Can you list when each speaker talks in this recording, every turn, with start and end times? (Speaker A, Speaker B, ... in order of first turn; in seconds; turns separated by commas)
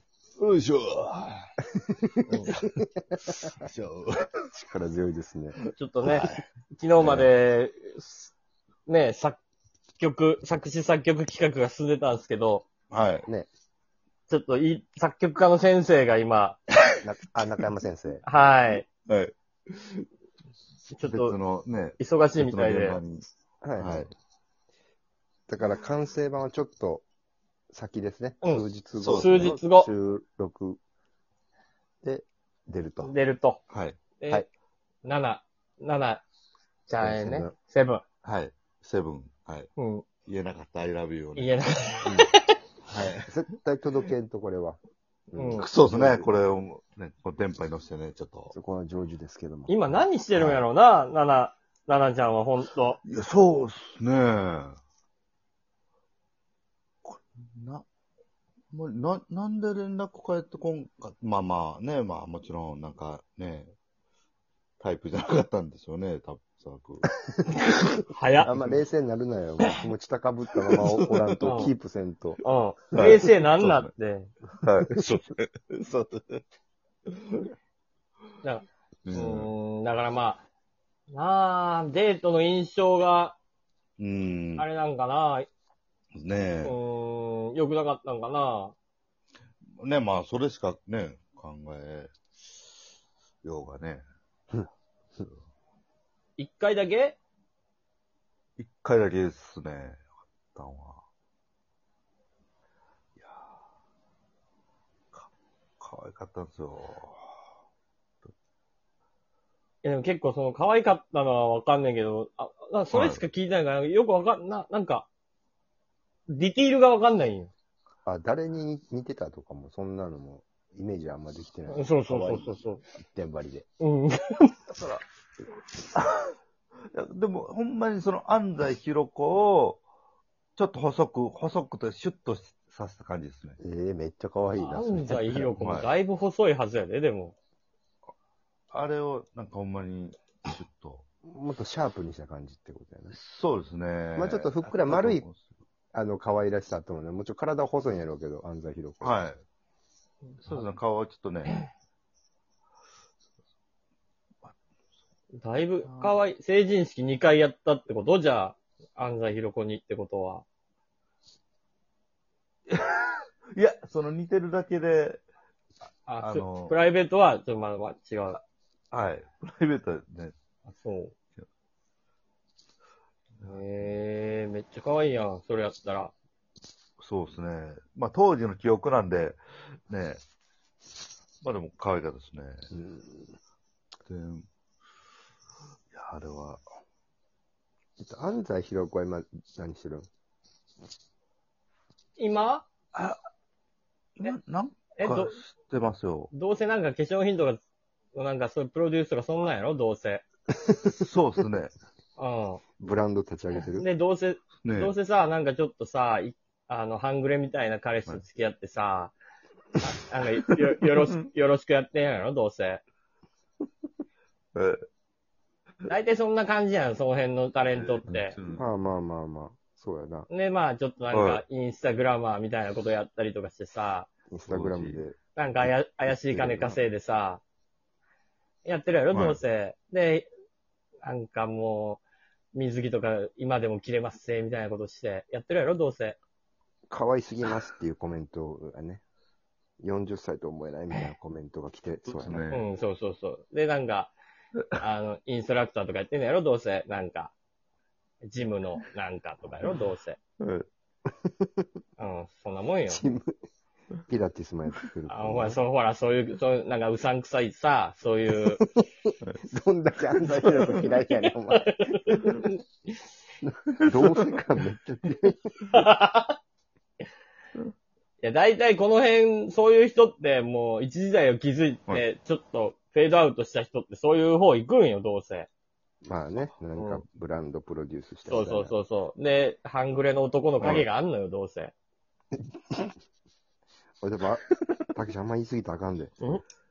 Speaker A: 0.4-1.5, Speaker A: 2.5-4.4, Speaker B: 4.5-5.6, Speaker C: 5.8-8.3, Speaker A: 6.0-6.4, Speaker A: 7.0-7.3, Speaker C: 8.8-9.4, Speaker C: 10.0-12.7, Speaker A: 12.9-13.2, Speaker C: 14.3-16.6, Speaker B: 17.0-18.2, Speaker C: 18.2-18.9, Speaker A: 19.0-20.1, Speaker C: 20.9-21.4, Speaker A: 21.0-23.2, Speaker C: 22.0-23.0, Speaker B: 23.6-24.0, Speaker A: 23.8-24.1, Speaker B: 25.5-27.0, Speaker B: 27.7-30.8, Speaker C: 28.4-29.9, Speaker A: 29.0-29.5, Speaker B: 32.0-33.1, Speaker C: 33.0-33.6, Speaker A: 33.7-34.0, Speaker C: 34.2-34.4, Speaker C: 35.0-36.2, Speaker C: 36.9-38.0, Speaker B: 37.0-37.5, Speaker A: 38.2-39.7, Speaker C: 39.8-40.0, Speaker A: 40.2-41.6, Speaker C: 41.4-42.5, Speaker A: 42.9-43.3, Speaker B: 42.9-44.8, Speaker B: 45.3-46.6, Speaker C: 45.3-45.7, Speaker A: 45.5-48.5, Speaker B: 48.5-50.6, Speaker C: 49.7-53.0, Speaker A: 53.0-54.8, Speaker A: 57.0-57.8, Speaker A: 58.7-63.7, Speaker A: 64.8-67.1, Speaker C: 68.1-68.5, Speaker A: 68.4-68.7, Speaker B: 68.4-73.2, Speaker A: 70.7-71.6, Speaker C: 71.4-71.7, Speaker C: 72.4-74.3, Speaker A: 72.9-73.9, Speaker A: 74.6-76.4, Speaker A: 77.1-77.5, Speaker C: 78.4-80.4, Speaker A: 79.0-79.5, Speaker C: 81.1-83.3, Speaker A: 84.0-84.7, Speaker C: 84.6-85.5, Speaker A: 86.2-86.7, Speaker C: 86.6-88.7, Speaker A: 89.8-92.1, Speaker A: 93.4-94.0, Speaker C: 96.4-97.2, Speaker A: 98.6-101.0, Speaker A: 103.2-103.5, Speaker A: 105.8-107.3, Speaker C: 109.8-115.1, Speaker A: 112.9-113.2, Speaker C: 116.3-117.5, Speaker B: 118.0-121.9, Speaker C: 121.7-122.8, Speaker A: 122.0-122.6, Speaker B: 123.0-123.7, Speaker C: 123.8-124.5, Speaker A: 124.7-125.0, Speaker A: 126.9-129.8, Speaker A: 130.6-133.6, Speaker B: 133.6-135.6, Speaker C: 134.6-137.3, Speaker A: 135.6-135.9, Speaker A: 138.7-141.0, Speaker B: 141.2-143.2, Speaker A: 143.1-145.5, Speaker B: 144.1-145.2, Speaker B: 145.9-149.2, Speaker A: 149.0-149.4, Speaker C: 150.2-150.6, Speaker A: 150.4-151.6, Speaker C: 155.4-160.4, Speaker A: 155.8-156.2, Speaker A: 162.7-165.2, Speaker C: 166.1-168.4, Speaker A: 166.2-166.8, Speaker A: 168.9-170.3, Speaker C: 170.8-171.1, Speaker C: 173.4-176.1, Speaker A: 177.0-179.4, Speaker A: 179.9-180.2, Speaker A: 181.4-182.7, Speaker B: 182.7-183.3, Speaker A: 184.1-184.4, Speaker A: 185.9-186.6, Speaker B: 188.0-190.1, Speaker C: 192.2-192.7, Speaker A: 192.9-193.2, Speaker A: 194.2-196.3, Speaker C: 195.0-195.4, Speaker C: 196.3-197.6, Speaker C: 198.1-200.2, Speaker A: 201.0-201.7, Speaker C: 202.2-202.6, Speaker B: 202.8-203.9, Speaker C: 203.6-209.1, Speaker A: 204.6-204.9, Speaker C: 209.8-212.8, Speaker A: 210.4-210.9, Speaker A: 214.5-214.8, Speaker C: 215.9-218.3, Speaker A: 217.7-218.7, Speaker B: 218.5-220.3, Speaker C: 220.3-224.1, Speaker A: 221.1-221.4, Speaker B: 224.3-225.2, Speaker A: 224.4-225.0, Speaker C: 225.3-227.4, Speaker B: 226.0-226.8, Speaker C: 228.6-230.3, Speaker A: 229.1-229.4, Speaker C: 231.0-232.0, Speaker C: 232.5-236.2, Speaker B: 236.9-239.0, Speaker B: 239.8-242.5, Speaker A: 242.0-242.7, Speaker C: 242.5-244.1, Speaker C: 244.8-247.3, Speaker C: 248.2-250.2, Speaker A: 250.4-250.7, Speaker C: 252.0-253.0, Speaker B: 252.9-253.3, Speaker B: 254.1-255.6, Speaker C: 255.1-258.6, Speaker B: 258.6-262.4, Speaker C: 260.6-262.6, Speaker B: 263.4-265.8, Speaker A: 263.9-264.4, Speaker C: 265.7-266.4, Speaker C: 268.2-275.5, Speaker B: 276.0-278.8, Speaker C: 276.8-277.0, Speaker C: 278.3-281.7, Speaker A: 280.6-280.9, Speaker B: 284.0-286.4